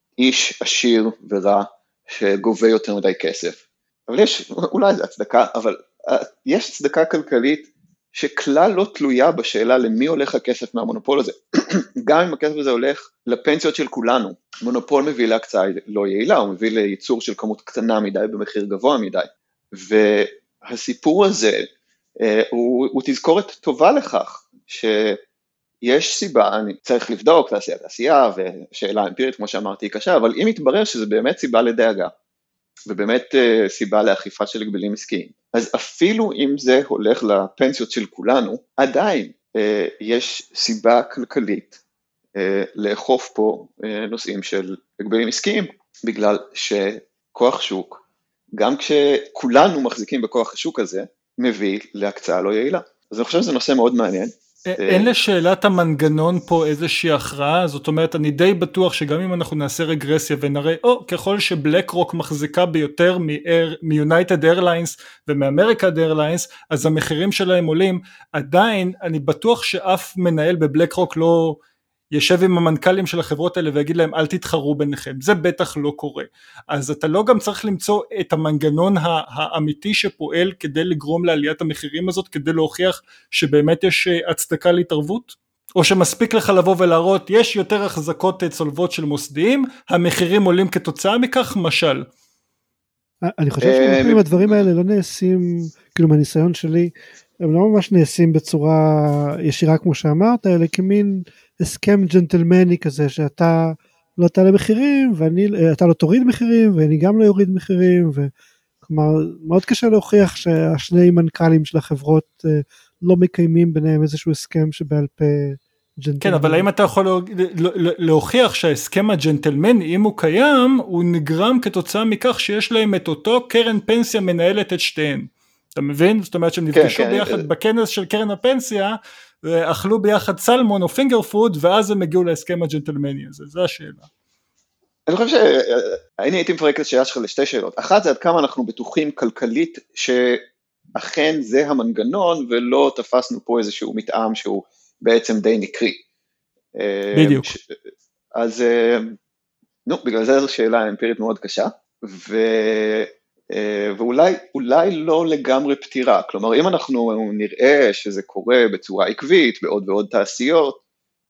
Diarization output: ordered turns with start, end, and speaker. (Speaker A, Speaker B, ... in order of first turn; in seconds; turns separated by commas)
Speaker A: 0.2-21.7, Speaker A: 22.2-25.2, Speaker A: 25.8-32.1, Speaker A: 32.9-41.8, Speaker A: 42.4-48.0, Speaker A: 48.6-55.1, Speaker B: 54.7-71.6, Speaker B: 72.1-92.1, Speaker C: 93.2-108.3, Speaker A: 93.6-94.7, Speaker C: 108.8-116.6, Speaker B: 116.2-134.1, Speaker A: 126.7-127.5, Speaker A: 135.1-140.4, Speaker A: 141.0-146.0, Speaker A: 146.8-147.8, Speaker B: 147.1-147.5, Speaker A: 148.3-149.2, Speaker A: 149.9-160.8